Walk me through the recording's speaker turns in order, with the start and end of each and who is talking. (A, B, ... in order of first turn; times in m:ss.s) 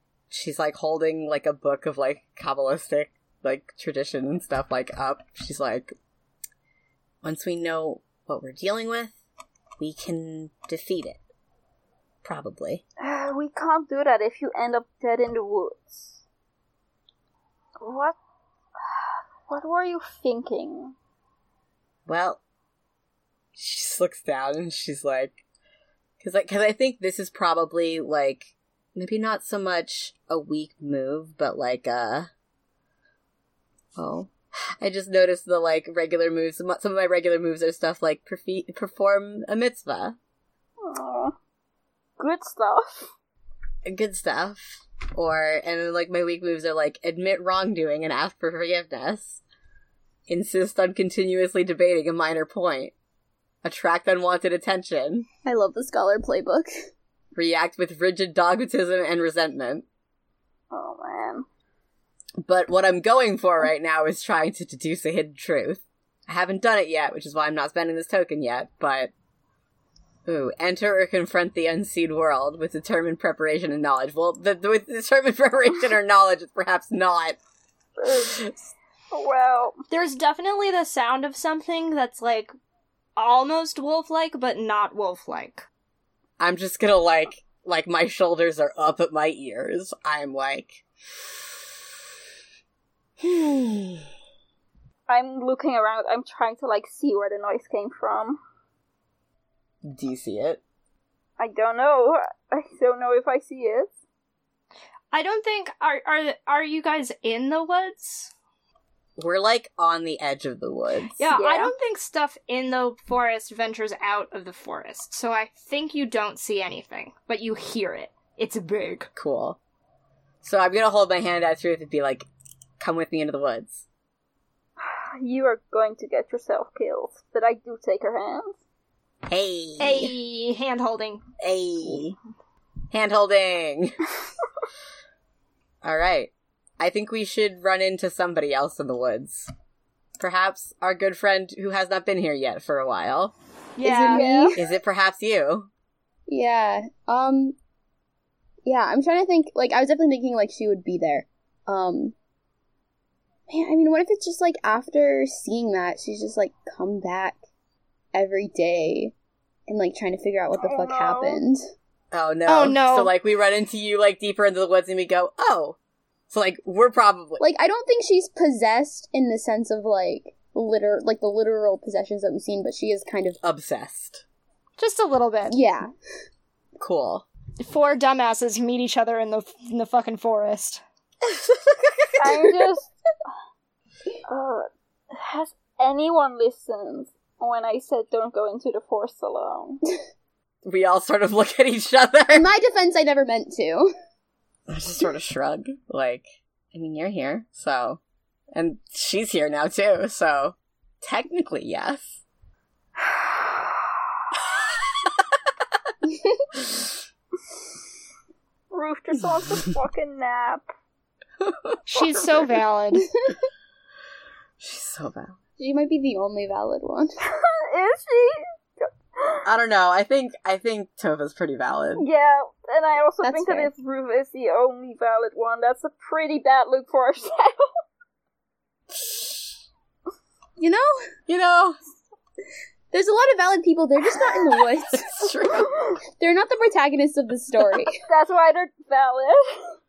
0:00.3-0:05.9 A
0:07.2-0:09.2 A
0:09.8-0:11.2 A
0:12.2-0:12.8 A
0:13.0-0:16.2 B
0:17.8-0:18.2 B
0:19.5-0:20.9 B
0:22.0-0:22.4 A
0:23.5-0:25.4 A
0:26.2-0:32.3 A
0:34.0-0:40.2 A
0:40.8-0:41.3 B
0:42.2-0:43.1 B
0:43.8-0:49.4 A
0:50.3-0:52.9 A
0:53.6-0:55.3 A
0:55.4-0:56.7 C
0:57.3-0:59.8 A
1:00.7-1:01.4 B
1:02.4-1:09.1 A
1:10.2-1:17.4 A
1:18.0-1:18.5 B
1:18.1-1:18.6 A
1:19.1-1:19.8 B
1:19.9-1:22.5 D
1:23.2-1:25.6 D
1:26.4-1:30.8 A
1:33.2-1:34.1 A
1:35.1-1:38.4 B
1:39.8-1:40.6 A
1:41.4-1:43.9 B
1:45.1-1:48.3 D
1:49.2-1:51.2 A
1:51.2-1:59.1 D
1:51.3-1:51.7 B
1:59.2-1:59.6 A
2:00.4-2:02.2 A
2:02.8-2:03.8 A
2:04.8-2:08.6 B
2:09.3-2:10.1 A
2:09.8-2:11.2 D
2:11.4-2:12.2 A
2:12.9-2:14.0 A
2:15.8-2:19.5 A
2:20.2-2:23.3 A
2:23.8-2:24.2 D
2:23.8-2:24.6 C
2:24.1-2:24.6 B
2:24.6-2:25.7 A
2:26.3-2:27.6 C
2:28.6-2:32.1 C
2:33.5-2:37.4 C
2:38.1-2:39.1 C
2:39.7-2:41.6 C
2:40.6-2:41.4 B
2:42.1-2:45.8 A
2:42.5-2:43.1 D
2:46.3-2:47.4 A
2:47.4-2:53.4 C
2:53.4-2:54.2 A
2:54.8-2:55.6 D
2:55.5-2:55.9 C
2:56.8-2:57.2 A
2:57.6-3:00.8 D
3:01.2-3:02.5 A
3:02.2-3:02.9 B
3:04.3-3:09.8 B
3:10.6-3:12.5 A
3:12.3-3:13.9 C
3:14.7-3:18.0 A
3:18.5-3:22.2 A
3:23.0-3:23.7 B
3:26.0-3:26.4 C
3:28.7-3:30.6 B
3:31.4-3:32.2 A
3:31.8-3:33.1 D
3:33.0-3:33.4 C
3:34.6-3:35.4 A
3:35.6-3:37.1 C
3:37.3-3:39.4 B
3:39.4-3:42.0 A
3:42.0-3:47.6 B
3:43.2-3:43.7 C
3:49.0-3:49.3 A
3:50.6-3:50.9 C
3:51.3-3:51.8 A
3:52.9-3:55.1 C
3:54.9-3:55.7 A
3:56.2-3:58.0 C
3:58.0-3:59.7 B